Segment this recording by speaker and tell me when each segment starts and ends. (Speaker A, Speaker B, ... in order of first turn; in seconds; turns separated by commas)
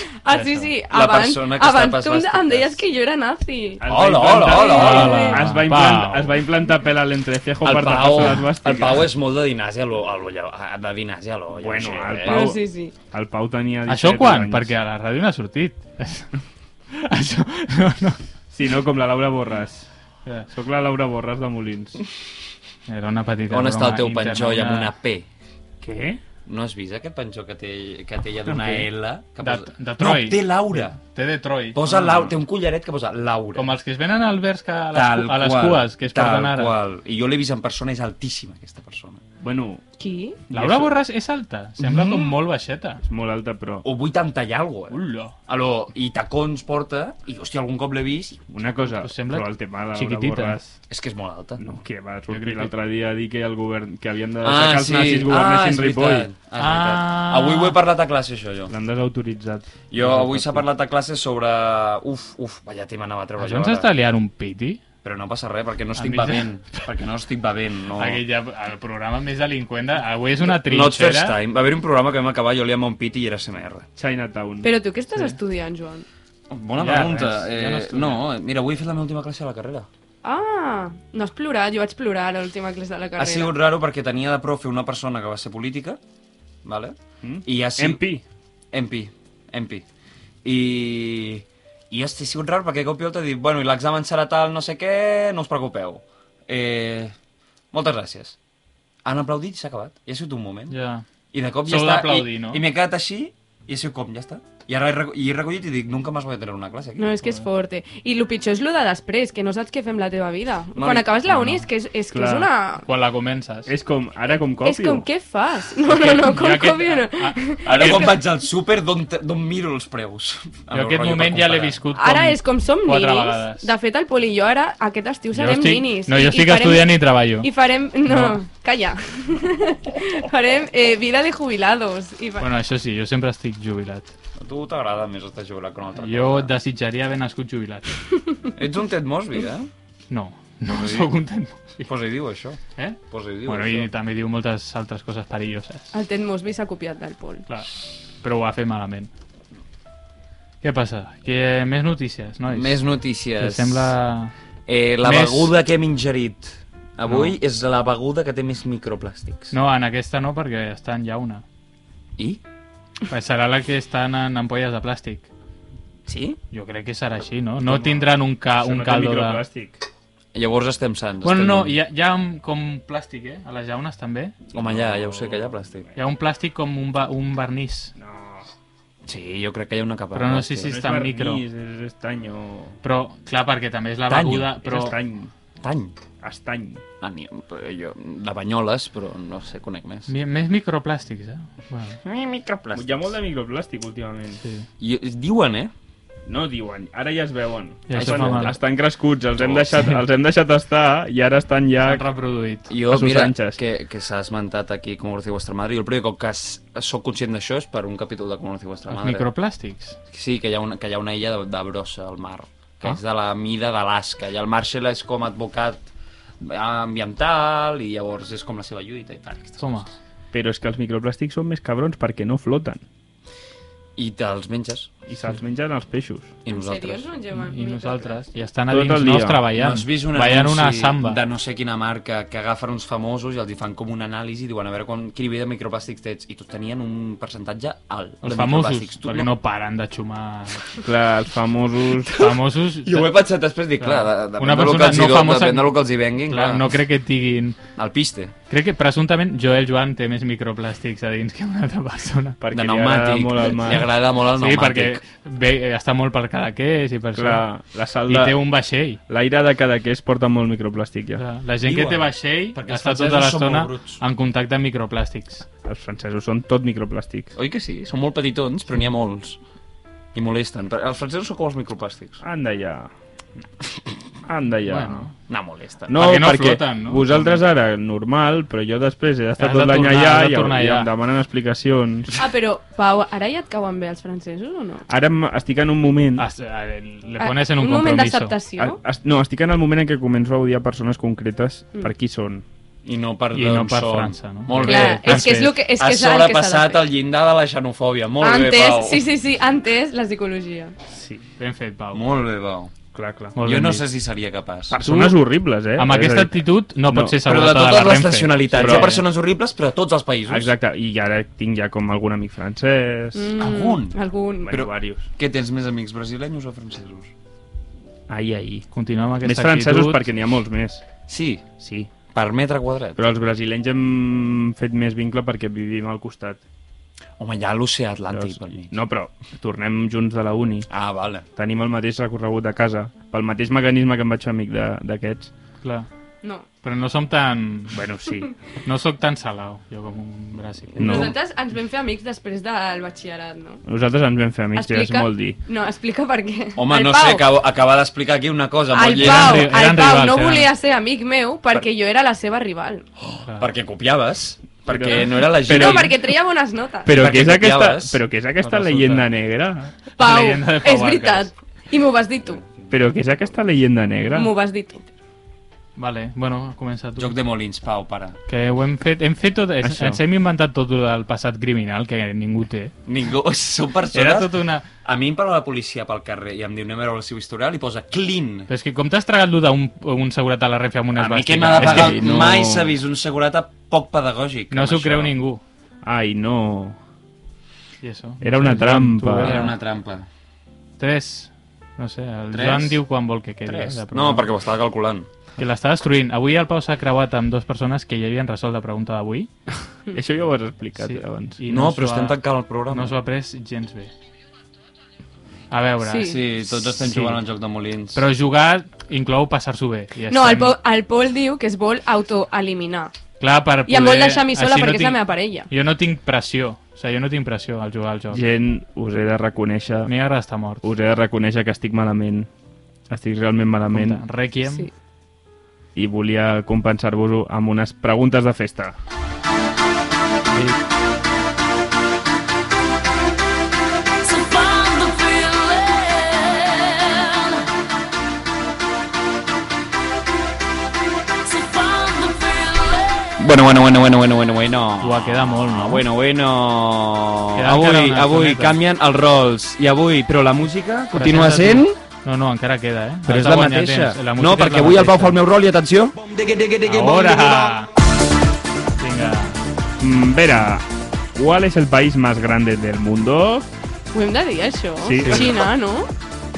Speaker A: 0.2-3.8, Speaker B: 0.3-0.7, Speaker C: 0.9-2.8, Speaker D: 3.8-9.1, Speaker C: 3.9-5.2, Speaker A: 4.4-5.4, Speaker B: 4.6-6.4, Speaker C: 7.6-12.5, Speaker D: 11.5-14.7, Speaker A: 12.2-12.9, Speaker B: 13.9-16.3, Speaker B: 16.9-18.2, Speaker D: 18.5-19.9, Speaker D: 20.5-22.0, Speaker B: 22.9-24.9, Speaker C: 23.5-25.3, Speaker D: 25.8-26.2, Speaker C: 26.4-31.0, Speaker D: 28.4-28.9, Speaker B: 29.4-32.2, Speaker C: 31.7-33.7, Speaker D: 31.9-32.3, Speaker B: 33.5-36.7, Speaker C: 34.9-39.2, Speaker D: 39.4-39.8, Speaker A: 40.0-40.4, Speaker D: 40.5-40.9, Speaker B: 40.5-43.0, Speaker C: 41.9-42.2, Speaker D: 43.0-43.8, Speaker C: 43.8-48.4, Speaker B: 44.9-45.3, Speaker D: 48.5-50.8, Speaker B: 49.0-50.6, Speaker C: 50.9-51.6, Speaker D: 51.6-56.3, Speaker B: 52.3-52.7, Speaker C: 54.4-58.7, Speaker B: 56.6-57.8, Speaker D: 58.7-60.6, Speaker C: 59.9-63.9, Speaker B: 63.4-64.8, Speaker C: 65.0-68.2, Speaker B: 65.9-66.5, Speaker B: 67.9-71.4, Speaker C: 70.4-73.9, Speaker D: 74.0-74.7, Speaker A: 74.6-76.0, Speaker C: 76.5-79.9, Speaker B: 76.8-78.3, Speaker A: 80.2-83.5, Speaker C: 83.2-86.0, Speaker C: 86.6-88.0, Speaker D: 87.2-88.2, Speaker C: 88.7-89.8, Speaker C: 90.4-97.1, Speaker C: 97.7-98.4, Speaker C: 99.0-100.8, Speaker B: 100.7-101.0, Speaker C: 101.3-107.1, Speaker B: 101.6-102.6, Speaker A: 107.0-112.9, Speaker C: 110.7-111.1, Speaker B: 111.2-111.7, Speaker D: 112.1-112.5, Speaker B: 112.8-113.7, Speaker D: 113.7-115.1, Speaker A: 114.6-118.2, Speaker B: 115.8-118.2, Speaker C: 117.6-121.8, Speaker B: 120.7-123.7, Speaker A: 121.9-132.5, Speaker B: 125.3-127.5, Speaker B: 128.1-128.4, Speaker B: 132.4-134.1, Speaker C: 134.4-136.5, Speaker B: 136.0-138.0, Speaker C: 138.6-139.7, Speaker B: 140.1-141.8, Speaker C: 140.7-141.1, Speaker C: 141.8-143.9, Speaker B: 142.8-145.9, Speaker A: 145.9-147.4, Speaker B: 147.5-149.1, Speaker B: 150.6-152.8, Speaker C: 152.5-153.9, Speaker B: 153.4-154.3, Speaker C: 154.7-159.5, Speaker B: 155.0-155.6, Speaker B: 157.0-157.4, Speaker B: 159.5-161.4, Speaker B: 163.1-165.3, Speaker C: 166.1-166.4, Speaker B: 166.5-169.4, Speaker D: 167.6-169.8, Speaker C: 170.3-171.8, Speaker B: 171.2-174.3, Speaker C: 174.5-175.9, Speaker D: 174.5-176.0, Speaker B: 175.9-177.9, Speaker D: 177.9-178.5, Speaker C: 179.1-180.8, Speaker B: 180.1-181.4, Speaker D: 180.6-182.8, Speaker B: 182.8-184.9, Speaker C: 184.1-184.9, Speaker D: 184.6-185.3, Speaker C: 185.6-186.0, Speaker D: 186.2-186.8, Speaker C: 187.0-190.1, Speaker B: 190.1-192.0, Speaker C: 192.0-193.1, Speaker D: 192.7-194.4, Speaker B: 194.4-194.7, Speaker C: 194.8-195.7, Speaker D: 196.2-202.0, Speaker B: 197.9-198.6, Speaker C: 197.9-198.6, Speaker C: 199.3-199.8, Speaker B: 201.8-202.7, Speaker C: 202.7-209.3, Speaker D: 202.8-203.6, Speaker B: 208.9-210.0, Speaker C: 210.1-215.8, Speaker C: 216.4-219.8, Speaker B: 219.6-219.9, Speaker D: 220.3-222.8, Speaker C: 223.9-224.9, Speaker D: 225.1-226.3, Speaker C: 226.4-227.1, Speaker A: 226.5-228.2, Speaker B: 227.3-231.2, Speaker D: 228.7-229.4, Speaker C: 229.5-239.3, Speaker B: 238.2-240.6, Speaker D: 240.8-242.2, Speaker C: 242.0-246.7, Speaker B: 242.1-243.2, Speaker B: 243.8-247.6, Speaker C: 247.8-248.3, Speaker B: 248.5-252.4, Speaker D: 252.4-253.9, Speaker C: 252.5-255.0, Speaker B: 253.7-257.5, Speaker D: 257.1-258.4, Speaker B: 258.1-259.0, Speaker D: 259.1-261.2, Speaker B: 261.1-265.4, Speaker C: 261.6-264.0, Speaker D: 265.6-267.3, Speaker C: 267.3-269.4, Speaker C: 270.1-272.2, Speaker D: 272.2-272.9, Speaker D: 274.2-275.1, Speaker B: 274.6-275.1, Speaker C: 275.3-276.1, Speaker D: 275.9-282.2, Speaker B: 275.9-277.4, Speaker B: 279.4-280.9, Speaker A: 282.1-284.9, Speaker D: 284.9-286.2, Speaker B: 286.1-288.4, Speaker A: 287.2-288.8, Speaker D: 288.6-292.4, Speaker C: 292.8-299.1, Speaker B: 293.3-295.6, Speaker A: 294.6-296.8, Speaker A: 298.2-300.7, Speaker B: 301.0-302.0, Speaker C: 301.9-302.8, Speaker D: 302.9-303.4, Speaker B: 303.3-303.8, Speaker C: 303.4-304.8, Speaker D: 304.7-307.2, Speaker B: 304.8-305.2, Speaker B: 305.8-309.0, Speaker C: 307.2-310.5, Speaker D: 308.5-309.0, Speaker D: 310.3-313.3, Speaker A: 313.1-314.6, Speaker C: 313.4-313.9, Speaker D: 314.4-315.1, Speaker C: 314.5-317.1, Speaker D: 318.1-318.7, Speaker B: 318.7-320.1, Speaker D: 319.2-320.9, Speaker C: 321.1-321.5, Speaker D: 321.6-321.9, Speaker C: 322.1-323.1, Speaker D: 322.9-326.4, Speaker C: 327.2-328.8, Speaker D: 328.1-330.7, Speaker C: 330.7-331.3, Speaker D: 331.4-335.3, Speaker B: 335.6-335.9, Speaker B: 336.6-337.8, Speaker D: 337.8-338.2, Speaker C: 337.8-338.2, Speaker B: 338.6-341.0, Speaker D: 340.8-341.1, Speaker A: 340.8-343.6, Speaker D: 343.6-345.4, Speaker A: 344.5-347.3, Speaker C: 346.6-349.5, Speaker A: 348.7-352.8, Speaker B: 348.9-350.5, Speaker C: 353.0-356.0, Speaker B: 353.2-353.5, Speaker D: 354.7-356.0, Speaker A: 355.2-356.9, Speaker D: 356.8-359.8, Speaker C: 356.9-358.0, Speaker B: 358.4-359.1, Speaker B: 360.0-361.3, Speaker A: 360.0-362.4, Speaker C: 362.3-362.7, Speaker D: 362.7-364.3, Speaker A: 364.1-364.9, Speaker B: 365.8-367.1, Speaker C: 366.9-368.2, Speaker B: 368.3-372.7, Speaker D: 369.6-370.0, Speaker C: 372.9-378.5, Speaker B: 373.9-374.7, Speaker B: 378.5-382.1, Speaker C: 380.9-385.1, Speaker D: 381.5-382.8, Speaker B: 384.5-385.4, Speaker D: 385.8-386.8, Speaker B: 387.8-389.6, Speaker D: 388.2-389.5, Speaker C: 389.2-390.1, Speaker B: 390.8-394.3, Speaker C: 392.3-392.8, Speaker C: 393.4-395.1, Speaker B: 395.4-399.3, Speaker D: 399.9-401.4, Speaker B: 400.8-403.9, Speaker C: 401.5-403.0, Speaker B: 405.5-407.2, Speaker A: 405.8-406.2, Speaker C: 406.0-408.0, Speaker B: 407.9-410.6, Speaker A: 410.1-412.9, Speaker B: 413.2-418.3, Speaker A: 413.7-415.5, Speaker D: 418.1-419.9, Speaker B: 419.8-420.6, Speaker D: 420.6-422.3, Speaker D: 422.9-424.0, Speaker B: 423.7-424.7, Speaker A: 424.4-424.7, Speaker D: 425.7-428.8, Speaker E: 434.0-437.1, Speaker E: 441.2-443.1, Speaker C: 443.2-451.8, Speaker B: 444.8-445.9, Speaker B: 447.3-448.6, Speaker B: 450.9-455.1, Speaker C: 453.1-457.5, Speaker B: 456.6-457.7, Speaker B: 458.7-459.4, Speaker D: 459.8-463.5, Speaker A: 463.9-465.9, Speaker D: 464.8-465.4, Speaker B: 465.0-465.3